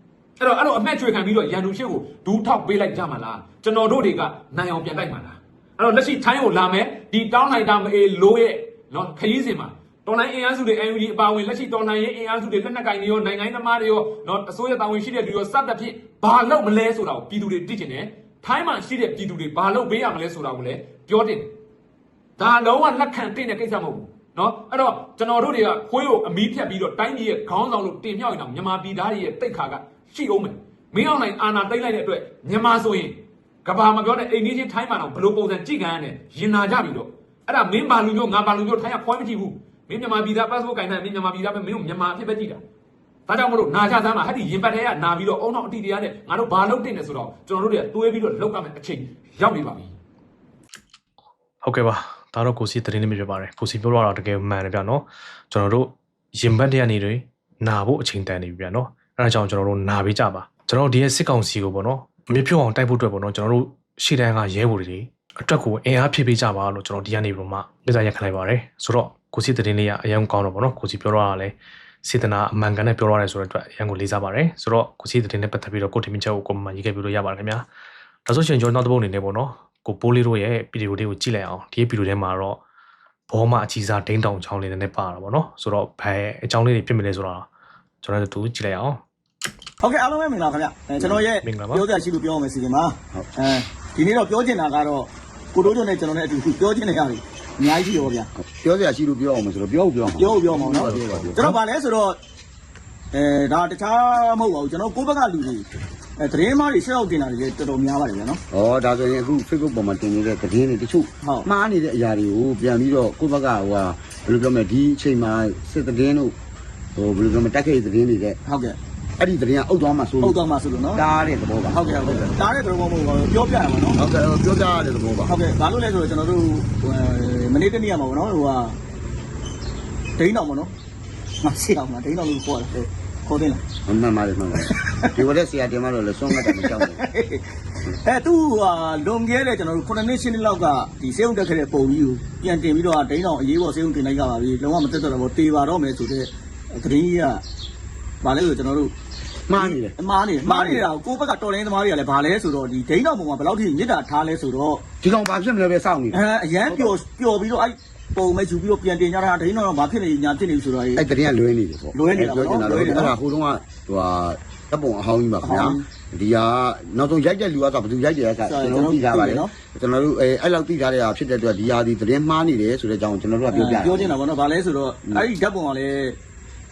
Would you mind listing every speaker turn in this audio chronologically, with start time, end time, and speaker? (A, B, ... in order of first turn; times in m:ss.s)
0:00.4-0:21.5 A
0:22.4-0:42.6 A
0:43.3-0:50.0 A
0:51.6-1:17.6 B
1:18.2-1:22.6 B
1:23.3-1:27.5 B
1:28.0-1:29.0 B
1:29.8-1:38.3 C
1:31.4-1:31.8 B
1:38.4-1:41.6 D
1:40.2-1:42.2 C
1:43.1-1:45.6 C
1:46.2-1:48.4 C
1:48.5-1:56.3 D
1:57.0-1:58.4 D
1:58.4-1:58.8 C
1:59.2-2:00.4 D
2:00.2-2:01.0 C
2:00.9-2:02.4 D
2:01.6-2:04.0 C
2:03.9-2:05.3 D
2:05.2-2:08.8 C
2:10.2-2:10.7 C
2:11.4-2:13.6 C
2:13.8-2:17.0 D
2:14.7-2:15.1 C
2:16.3-2:17.4 C
2:18.0-2:27.4 C
2:28.2-2:28.9 C
2:29.5-2:30.9 D
2:29.6-2:34.8 C
2:35.0-2:37.0 D
2:36.1-2:41.0 C
2:40.9-2:54.2 D
2:41.9-2:43.1 C
2:45.4-2:45.8 C
2:48.4-2:49.5 C
2:53.5-2:56.2 C